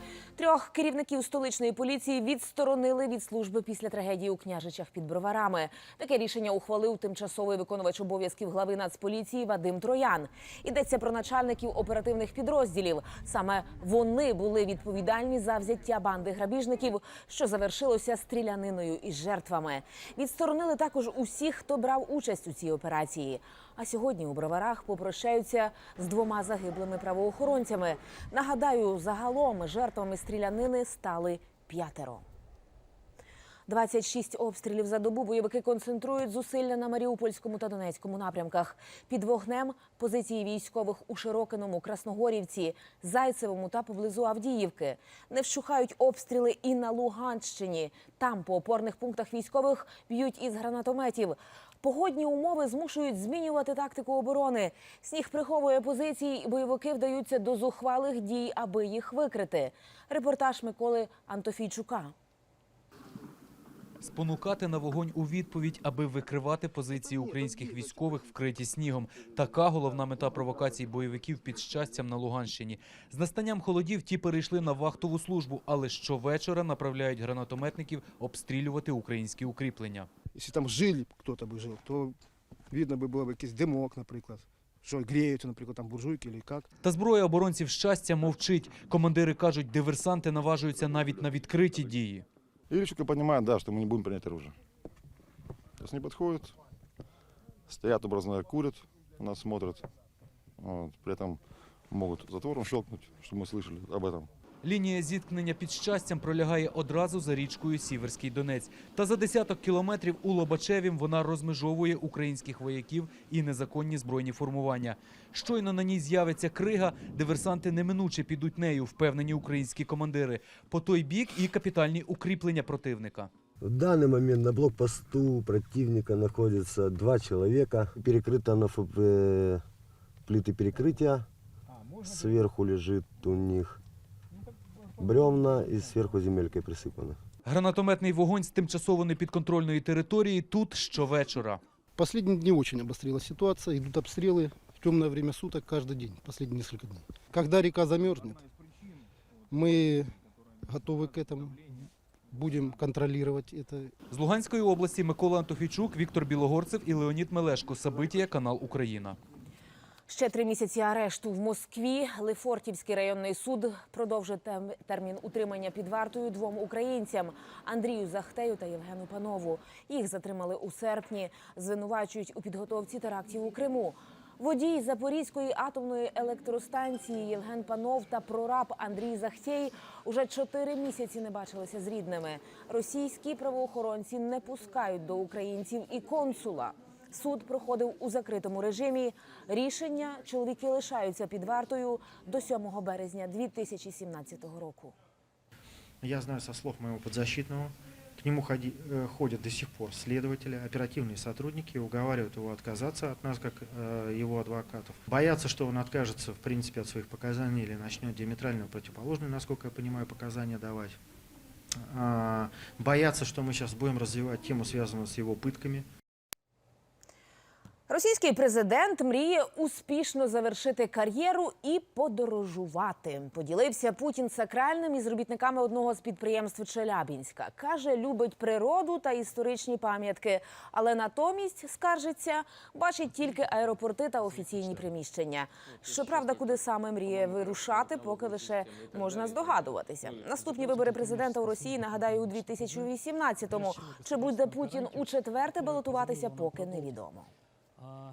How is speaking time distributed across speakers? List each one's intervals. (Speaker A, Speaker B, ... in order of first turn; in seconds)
Speaker A: 0.4-32.2, 33.7-62.1, 160.1-194.9, 217.9-247.3
Speaker B: 64.0-80.1, 86.8-92.2, 104.6-123.3, 137.5-141.6, 154.1-159.2
Speaker C: 92.7-94.5, 95.8-96.5, 97.7-99.9, 100.6-101.4, 101.9-104.3
Speaker D: 123.6-129.6, 130.3-131.2, 132.0-133.8, 135.0-137.2
Speaker E: 142.0-148.4, 149.5-150.1, 150.7-151.7, 152.3-153.9
Speaker F: 196.0-211.0, 211.9-215.9